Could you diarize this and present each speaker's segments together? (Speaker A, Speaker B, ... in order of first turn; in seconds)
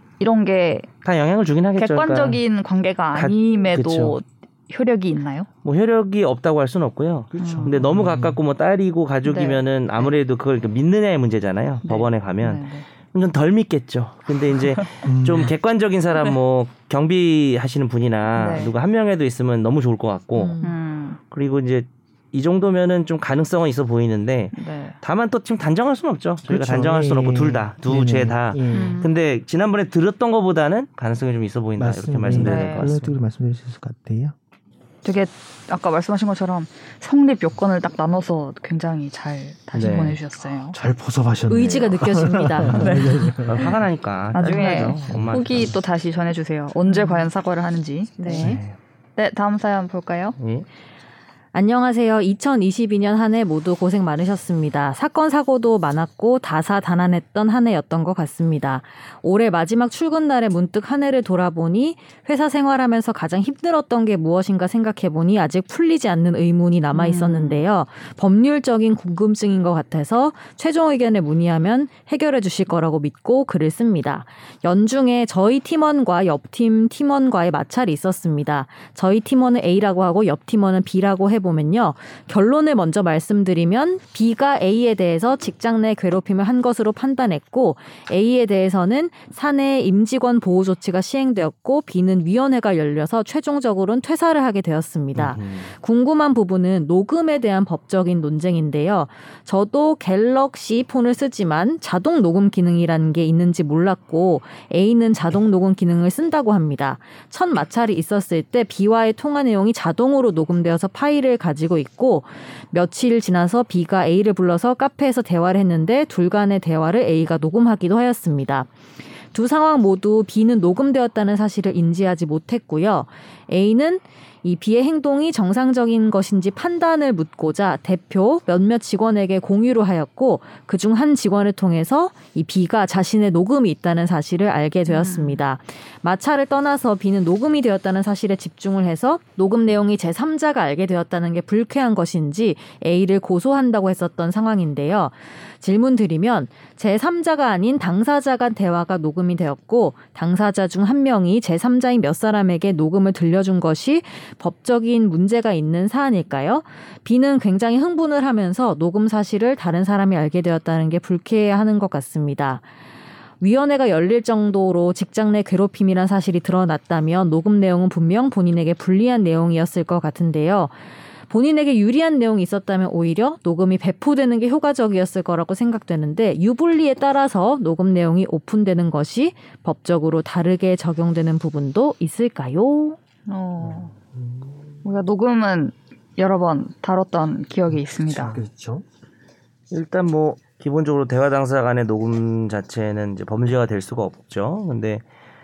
Speaker A: 0.2-0.9, 1.8-5.5, 7.4-7.7, 9.2-10.2, 11.8-12.8, 18.4-18.7, 20.6-21.2, 24.6-25.0, 28.7-29.1, 32.3-32.9, 35.0-40.8, 42.7-43.7, 44.3-48.5, 49.2-50.4, 66.9-67.6, 134.9-135.4, 183.3-183.9, 184.8-188.4
Speaker B: 1.0-2.4, 3.1-4.2, 5.6-20.6, 21.3-33.2, 39.7-40.2, 43.4-45.7, 48.3-48.8, 50.4-50.6, 95.1-95.7, 189.7-195.0
Speaker C: 7.3-8.4, 15.0-15.5, 26.5-29.1, 31.8-34.3, 40.7-43.8, 45.1-45.4, 183.6-184.6, 187.7-188.8
Speaker D: 20.4-20.8, 41.5-42.9, 46.9-47.2, 48.2-48.6, 51.5-118.7, 119.3-162.6, 163.4-170.7, 171.3-183.0